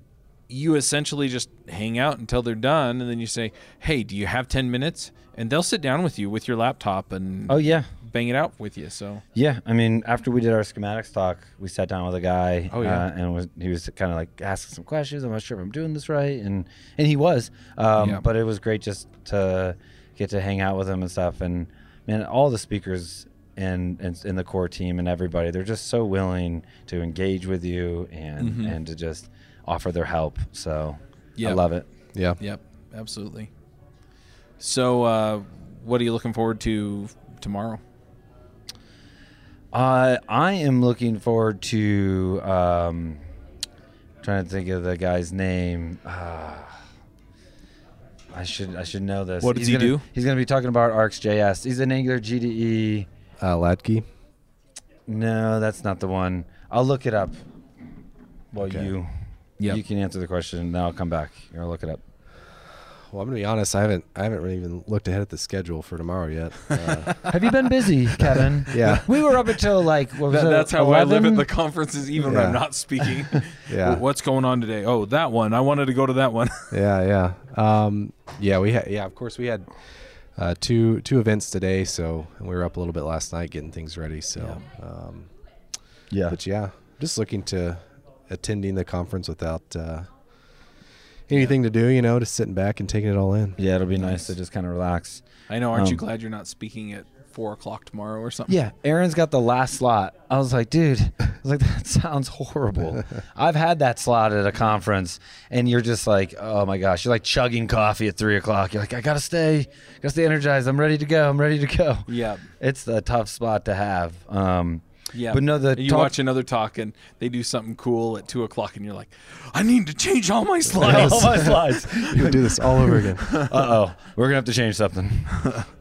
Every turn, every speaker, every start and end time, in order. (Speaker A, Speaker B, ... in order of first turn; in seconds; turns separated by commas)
Speaker A: 0.5-9.2, Speaker B: 7.5-7.9, Speaker B: 9.3-31.9, Speaker A: 12.7-13.1, Speaker A: 18.0-18.2, Speaker A: 28.4-28.8, Speaker C: 32.1-32.4, Speaker A: 32.4-33.5, Speaker A: 34.6-37.8, Speaker B: 39.7-43.2, Speaker B: 44.2-46.8, Speaker B: 48.3-53.1, Speaker A: 49.4-50.0, Speaker C: 53.4-54.1, Speaker B: 55.1-57.4, Speaker B: 58.5-62.0, Speaker C: 58.6-58.9, Speaker C: 62.9-67.2, Speaker A: 66.9-67.2, Speaker B: 67.3-71.5, Speaker C: 68.7-69.1, Speaker A: 70.3-76.8, Speaker C: 72.2-72.7, Speaker C: 73.7-74.0, Speaker C: 76.7-85.3, Speaker B: 86.1-86.4, Speaker C: 86.3-90.3, Speaker C: 91.3-93.6, Speaker B: 93.6-96.0, Speaker A: 94.0-94.3, Speaker A: 95.5-98.5, Speaker B: 98.5-116.2, Speaker A: 112.1-112.5, Speaker A: 115.1-122.3, Speaker B: 120.8-125.6, Speaker C: 120.9-121.2, Speaker C: 122.1-123.3, Speaker A: 122.9-123.5